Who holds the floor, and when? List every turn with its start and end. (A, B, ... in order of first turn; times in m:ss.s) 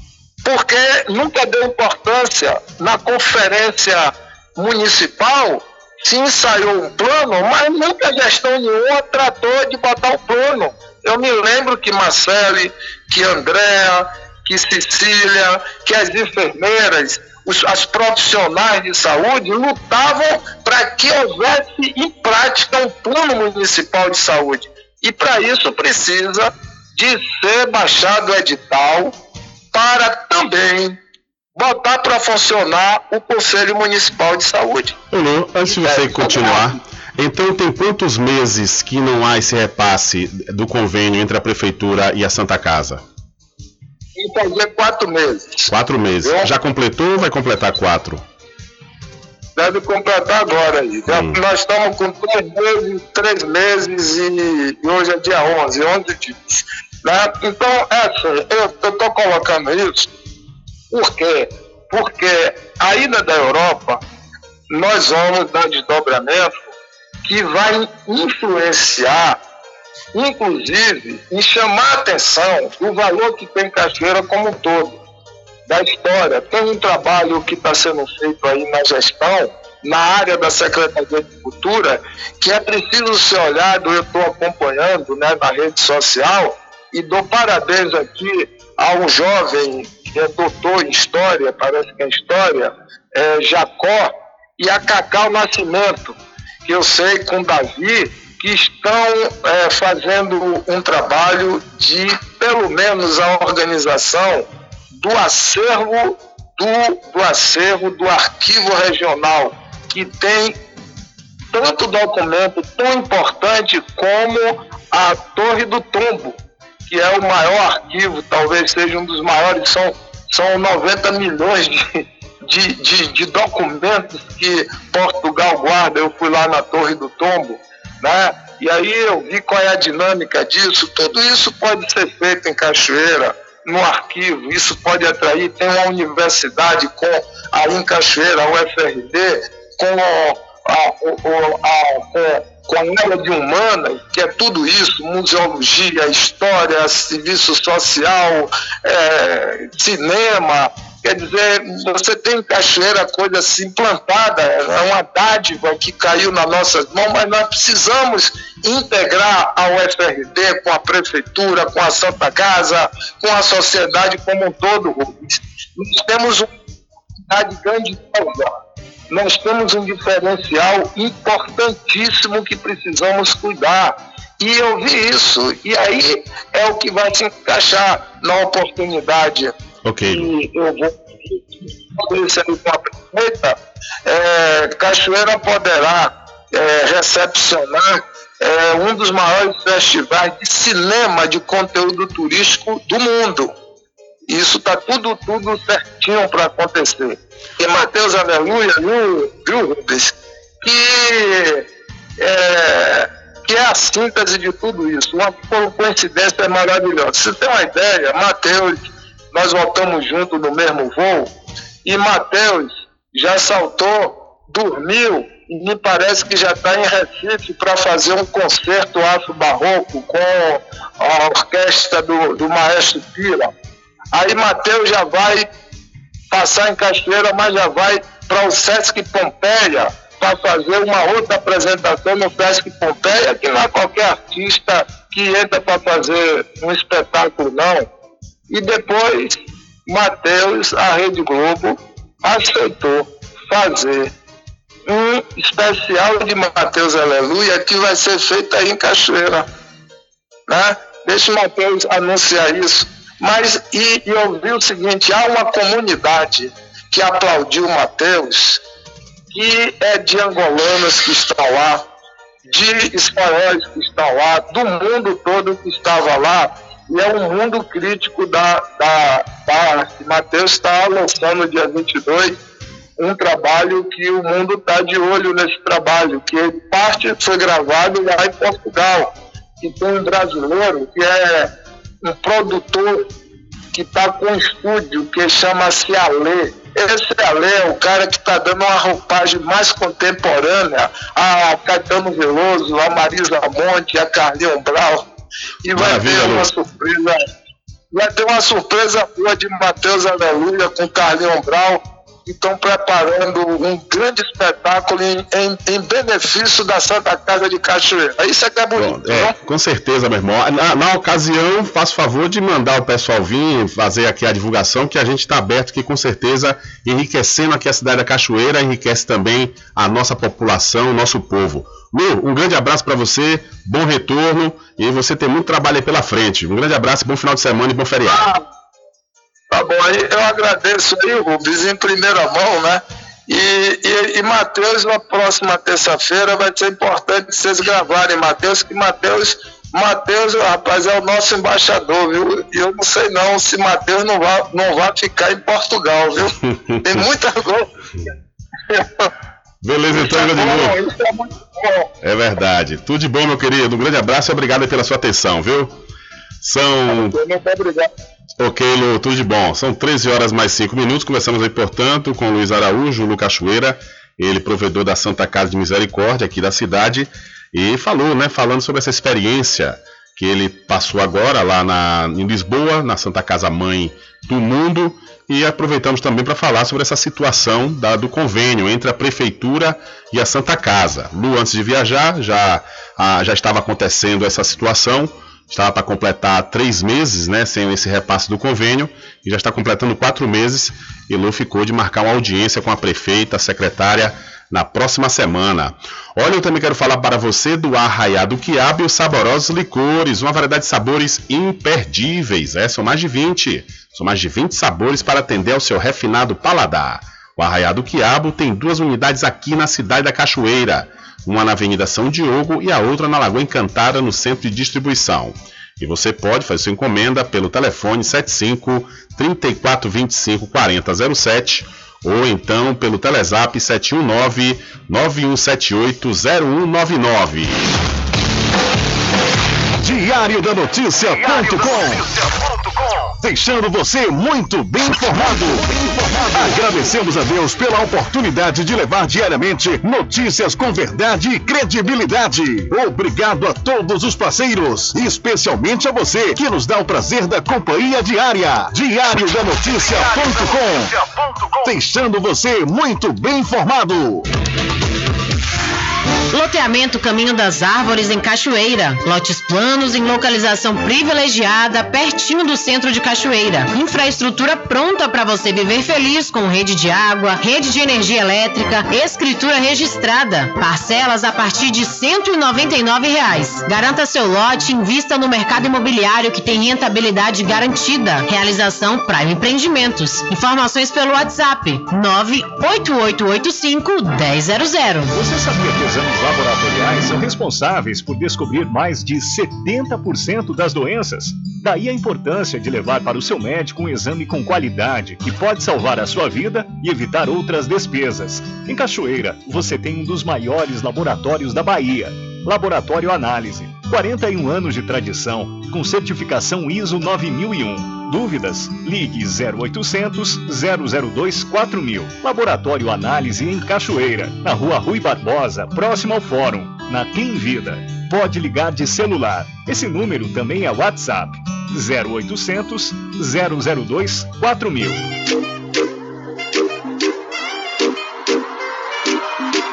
0:00.4-0:29.2 A
0:29.7-0:31.0 A
0:31.6-0:35.0 A
0:35.1-0:43.0 B
0:35.7-0:36.7 A
0:44.2-0:45.7 A
0:45.7-0:48.2 B
0:46.2-0:46.5 A
0:49.6-1:00.1 A
0:51.1-0:51.4 B
1:00.9-1:04.0 A
1:04.7-1:06.7 A
1:07.2-1:09.4 A
1:10.1-1:15.0 A
1:15.7-1:50.6 A
1:51.5-2:01.8 A
2:02.4-2:46.5 A
2:47.3-2:48.5 A
2:49.1-2:59.5 A
2:59.8-3:00.3 B
3:00.1-3:13.5 A
3:14.3-3:21.6 A
3:22.2-3:28.8 A
3:29.3-3:31.3 A
3:31.8-3:43.5 A
3:44.1-3:45.5 A
3:46.3-3:57.9 A
3:58.5-3:59.4 A
3:59.9-4:04.1 A
4:04.9-4:09.5 A
4:10.5-4:18.6 A
4:19.3-4:21.8 A
4:22.5-4:32.4 A
4:33.0-4:41.5 A
4:42.0-4:43.1 A
4:43.7-4:55.1 A
4:55.6-4:57.2 A
4:55.7-4:56.5 B
4:57.9-5:09.3 A
5:08.8-5:28.3 B
5:28.1-5:28.4 A
5:29.5-5:46.3 A
5:46.6-5:47.1 B
5:46.8-5:47.7 A
5:48.7-5:49.1 A
5:49.6-5:50.8 B
5:49.9-5:51.9 A
5:52.0-5:55.8 B
5:56.4-5:57.2 B
5:56.9-5:57.9 A
5:58.4-7:07.7 B
7:09.8-7:12.1 C
7:13.2-7:31.0 C
7:31.6-7:34.3 C
7:36.3-8:05.1 D
8:05.1-8:45.0 E